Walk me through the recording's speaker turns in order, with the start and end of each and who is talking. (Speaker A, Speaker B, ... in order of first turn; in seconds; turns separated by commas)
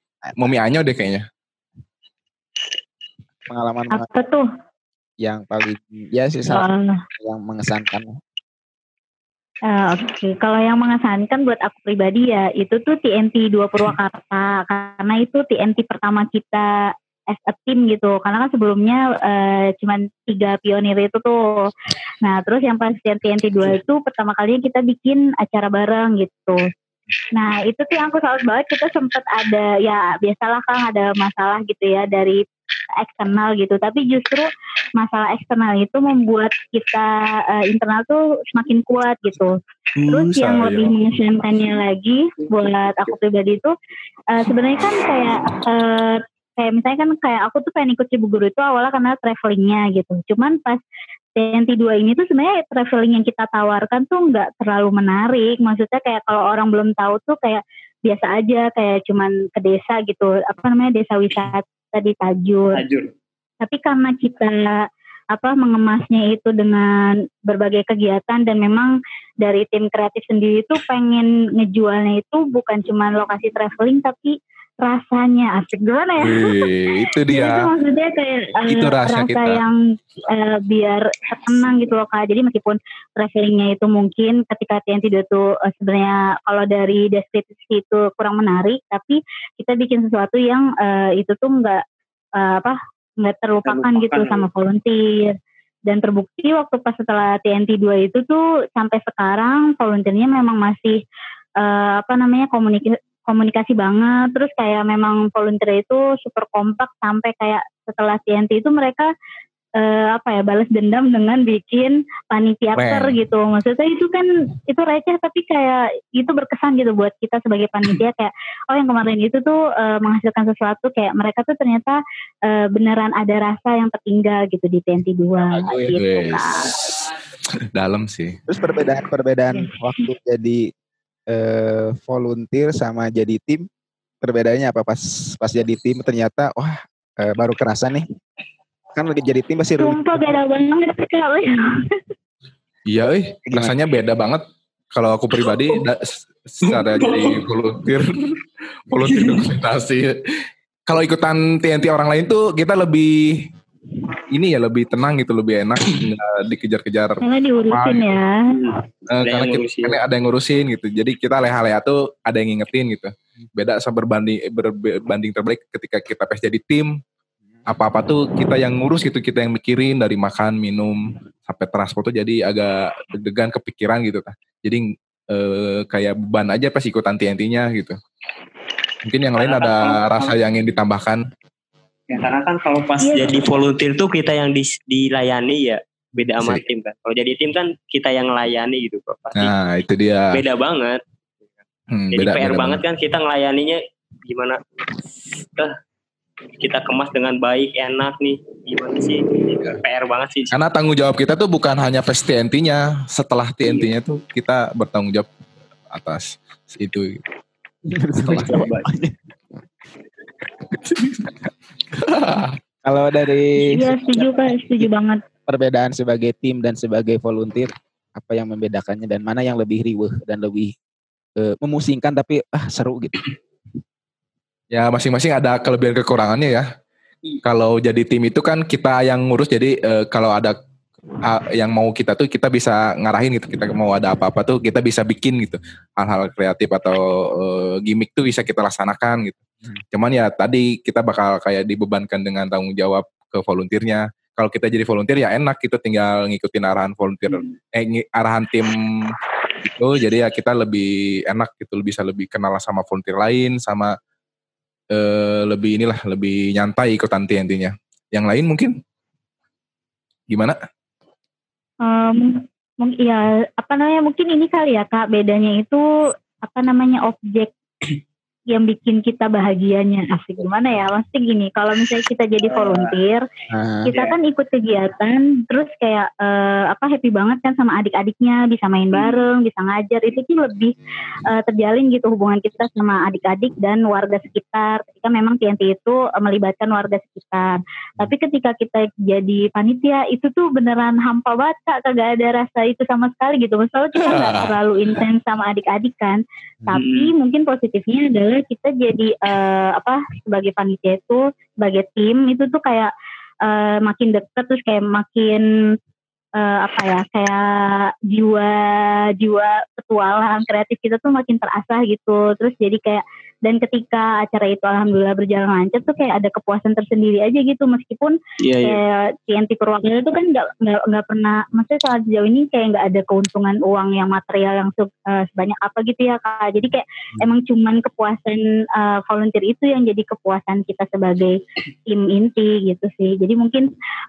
Speaker A: 0.2-0.6, Speaker B: 0.4-1.2, Speaker A: 3.5-4.1, Speaker C: 3.9-4.4, Speaker A: 5.2-6.7, Speaker C: 6.5-7.0, Speaker A: 7.2-8.2, Speaker C: 9.7-16.7, Speaker C: 17.3-21.4, Speaker C: 22.2-26.6, Speaker C: 27.4-32.4, Speaker C: 33.0-39.5, Speaker B: 40.0-40.9, Speaker C: 40.1-43.7, Speaker C: 44.3-50.8, Speaker C: 51.4-62.8, Speaker D: 62.7-63.1, Speaker C: 63.6-64.7, Speaker C: 65.3-76.6, Speaker B: 76.2-77.5, Speaker C: 77.3-79.8, Speaker B: 78.7-79.6, Speaker C: 80.3-91.8, Speaker C: 92.4-95.4, Speaker D: 93.7-94.4, Speaker C: 95.9-101.0, Speaker C: 101.6-109.1, Speaker C: 109.8-122.0, Speaker B: 112.7-113.2, Speaker C: 122.5-126.6, Speaker A: 125.5-126.0, Speaker B: 125.9-127.1, Speaker B: 127.7-128.4, Speaker A: 128.5-130.7, Speaker A: 131.3-133.7, Speaker A: 134.2-138.0, Speaker A: 138.9-140.3, Speaker C: 139.8-141.6, Speaker B: 142.9-148.4, Speaker A: 143.4-143.7, Speaker D: 146.7-147.4, Speaker B: 148.9-150.1, Speaker D: 149.0-149.4, Speaker B: 150.9-153.4, Speaker B: 154.3-157.2, Speaker C: 157.2-158.3, Speaker B: 157.7-158.1, Speaker D: 158.5-160.0, Speaker B: 159.1-166.9, Speaker B: 167.7-178.0, Speaker B: 179.0-181.2, Speaker D: 179.4-180.4, Speaker D: 182.1-189.5, Speaker C: 183.0-183.4, Speaker B: 189.4-190.4, Speaker D: 190.3-191.0, Speaker B: 191.9-192.8, Speaker D: 192.1-194.6, Speaker D: 196.6-200.6, Speaker B: 200.5-205.3, Speaker B: 205.9-207.2, Speaker A: 207.9-209.2, Speaker B: 208.2-208.7, Speaker D: 208.3-208.8, Speaker B: 210.9-211.3, Speaker B: 211.9-212.6, Speaker A: 212.8-214.4, Speaker C: 213.7-215.2, Speaker A: 215.5-220.7, Speaker A: 221.4-223.2, Speaker B: 224.7-226.6, Speaker B: 227.4-230.6, Speaker B: 231.2-239.4, Speaker B: 239.9-253.9, Speaker B: 254.9-258.7, Speaker B: 260.3-260.6, Speaker C: 261.9-265.8, Speaker C: 266.4-267.5, Speaker C: 268.5-273.2, Speaker D: 272.4-272.9, Speaker A: 273.5-273.9, Speaker C: 273.9-280.7, Speaker D: 278.9-279.2, Speaker C: 281.3-302.9, Speaker B: 294.0-294.5, Speaker D: 296.7-297.1, Speaker C: 303.4-305.4, Speaker C: 306.4-307.4, Speaker C: 308.1-331.4, Speaker D: 318.5-318.8, Speaker C: 331.9-333.7